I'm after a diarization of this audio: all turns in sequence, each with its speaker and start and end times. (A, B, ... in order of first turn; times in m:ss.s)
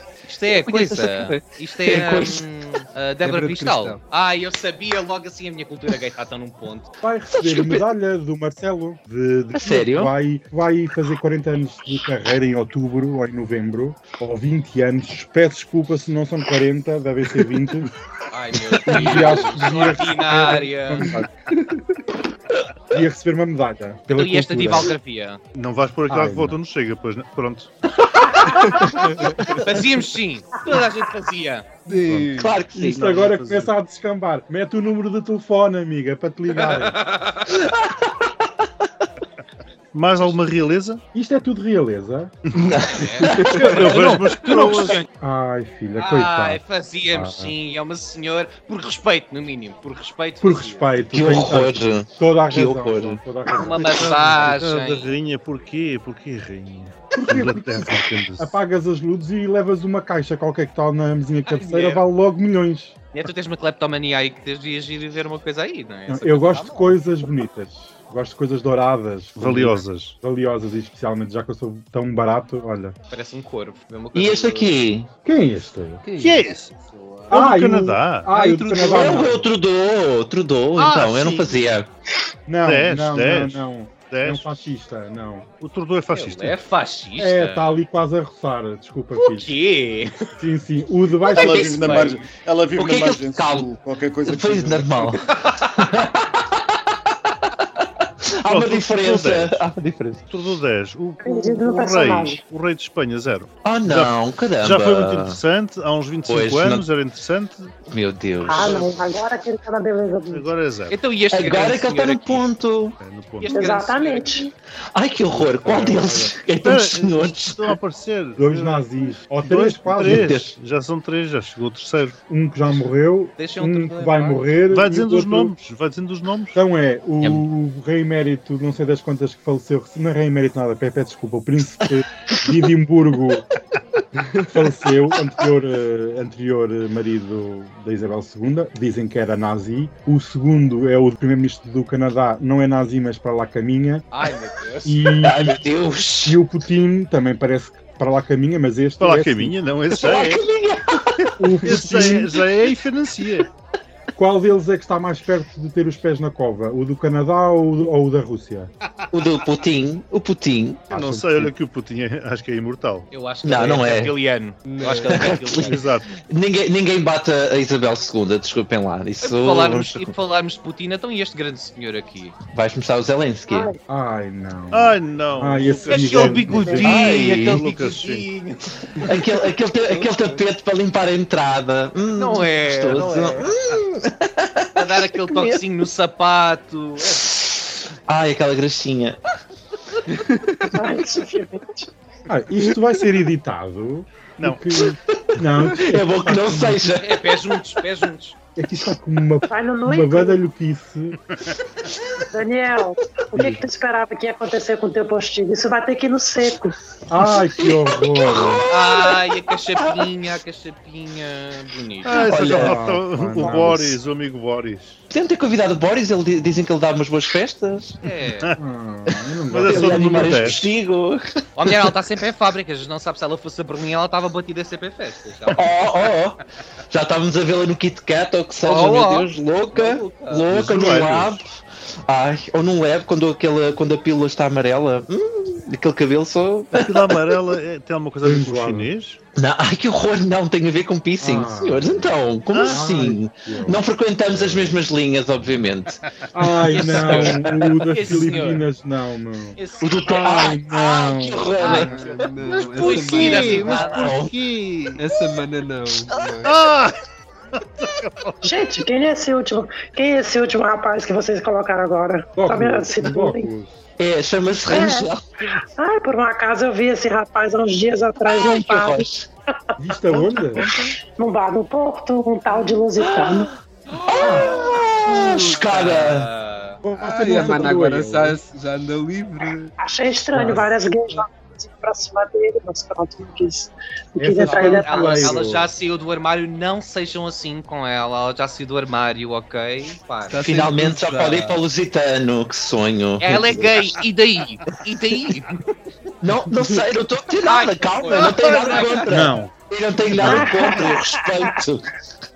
0:00.2-0:06.9 A
0:00.5-0:01.5 B
0:01.8-0:02.4 C
0:03.2-0:04.0 B
0:07.0-0:17.9 D
0:07.3-0:07.8 C
0:09.5-0:10.1 C
0:18.3-0:21.2 A
0:18.8-0:21.3 D
0:19.0-0:19.3 C
0:22.9-0:24.9 D
0:24.1-0:25.4 A
0:25.5-0:27.7 E
0:26.1-0:26.6 D
0:29.6-0:31.6 A
0:31.8-0:32.6 B
0:32.0-0:37.0 D
0:32.3-0:33.5 C
0:33.1-0:33.7 E
0:36.6-0:37.5 A
0:37.5-0:38.3 C
0:39.9-0:41.0 E
0:41.1-0:42.3 D
0:42.5-0:42.8 E
0:42.5-0:44.0 C
0:42.8-0:45.1 A
0:43.5-0:45.1 E
0:45.2-0:47.5 D
0:46.0-0:51.0 A
0:50.4-0:54.1 D
0:51.1-0:53.2 C
0:53.5-0:55.1 A
0:53.8-0:58.6 E
0:57.2-1:03.0 D
1:01.5-1:02.0 A
1:03.1-1:07.0 A
1:06.1-1:13.0 D
1:09.4-1:10.2 E
1:13.1-1:14.8 A
1:14.1-1:15.1 C
1:15.2-1:16.0 D
1:16.0-1:16.5 B
1:16.2-1:16.7 E
1:16.9-1:17.3 A
1:17.3-1:19.3 E
1:17.3-1:19.5 D
1:18.3-1:18.7 B
1:18.9-1:21.9 C
1:20.8-1:21.6 A
1:22.5-1:25.5 D
1:22.6-1:24.4 E
1:25.6-1:26.6 E
1:26.1-1:27.7 A
1:27.2-1:29.5 D
1:29.2-1:30.3 A
1:30.4-1:32.0 D
1:31.3-1:32.2 C
1:31.3-1:35.2 F
1:32.7-1:36.6 C
1:38.3-1:40.2 C
1:38.5-1:39.6 E
1:40.3-1:47.7 E
1:41.2-1:42.4 G
1:43.6-1:45.4 C
1:46.3-1:46.9 C
1:47.9-1:48.9 C
1:48.4-1:50.5 G
1:48.6-1:48.8 E
1:50.3-1:51.0 E
1:50.9-1:52.5 A
1:51.3-1:53.0 C
1:53.0-1:53.8 E
1:53.4-1:54.5 A
1:53.5-1:54.5 G
1:54.9-1:57.8 C
1:55.3-1:56.4 D
1:56.6-2:02.2 E
1:58.4-2:00.3 D
2:00.0-2:00.6 C
2:02.3-2:05.5 D
2:03.4-2:04.4 A
2:04.7-2:06.6 E
2:06.5-2:13.5 D
2:14.5-2:24.0 D
2:24.1-2:25.0 A
2:24.8-2:25.6 D
2:25.2-2:26.4 C
2:26.2-2:29.6 D
2:29.0-2:30.4 E
2:29.9-2:31.4 C
2:31.4-2:32.4 D
2:31.6-2:33.5 E
2:34.1-2:38.7 D
2:39.1-2:40.9 C
2:40.9-2:41.5 D
2:40.9-2:43.1 E
2:43.1-2:45.8 A
2:43.4-2:44.1 C
2:44.6-2:45.2 B
2:45.1-2:50.1 C
2:45.6-2:46.1 E
2:49.2-2:52.4 A
2:52.5-2:53.7 C
2:53.5-2:53.8 G
2:53.9-2:57.0 D
2:54.7-2:58.3 E
2:55.8-2:58.7 A
2:56.8-2:57.6 C
2:59.0-3:05.6 C
2:59.9-3:00.5 B
3:02.2-3:03.5 A
3:04.8-3:07.3 A
3:07.1-3:09.2 C
3:10.3-3:10.7 B
3:10.7-3:11.9 G
3:12.3-3:16.9 D
3:15.3-3:17.3 C
3:17.0-3:18.4 A
3:18.6-3:21.2 D
3:19.5-3:20.4 G
3:22.3-3:26.7 G
3:23.3-3:23.6 D
3:27.1-3:28.6 D
3:27.3-3:30.0 C
3:28.7-3:32.3 A
3:32.0-3:35.0 E
3:32.1-3:33.6 C
3:32.5-3:34.0 D
3:35.1-3:38.0 C
3:38.0-3:38.5 A
3:38.3-3:38.6 E
3:38.6-3:40.5 D
3:39.5-3:40.7 E
3:39.6-3:42.0 C
3:41.6-3:46.1 A
3:45.5-3:51.5 C
3:48.6-3:50.5 A
3:50.5-3:51.4 E
3:52.1-3:57.4 C
3:56.7-3:59.2 E
3:58.2-3:58.9 D
3:59.4-4:06.0 C
4:01.2-4:03.8 D
4:02.5-4:03.0 E
4:04.4-4:04.7 D
4:06.3-4:11.8 D
4:06.6-4:08.1 C
4:06.7-4:08.7 A
4:09.6-4:10.3 A
4:09.8-4:11.9 C
4:11.6-4:14.1 A
4:11.6-4:13.8 B
4:12.4-4:15.0 E
4:12.9-4:14.3 C
4:15.0-4:16.5 B
4:16.4-4:17.0 E
4:17.5-4:18.5 E
4:18.4-4:23.5 G
4:22.4-4:23.8 D
4:24.0-4:25.3 C
4:24.7-4:25.1 G
4:25.8-4:29.0 G
4:28.2-4:29.3 C
4:29.8-4:30.6 D
4:30.1-4:30.9 E
4:31.2-4:33.5 G
4:33.0-4:36.3 C
4:34.1-4:34.9 A
4:34.2-4:34.5 D
4:35.5-4:36.8 A
4:36.8-4:38.4 D
4:37.0-4:39.7 B
4:39.8-4:45.4 G
4:40.3-4:40.7 D
4:44.2-4:45.7 D
4:44.4-4:50.4 A
4:50.3-4:51.6 B
4:50.4-4:53.9 C
4:53.2-4:55.6 A
4:56.2-5:01.8 C
4:57.4-4:59.2 A
4:59.1-4:59.5 D
5:00.1-5:00.5 D
5:00.2-5:01.5 G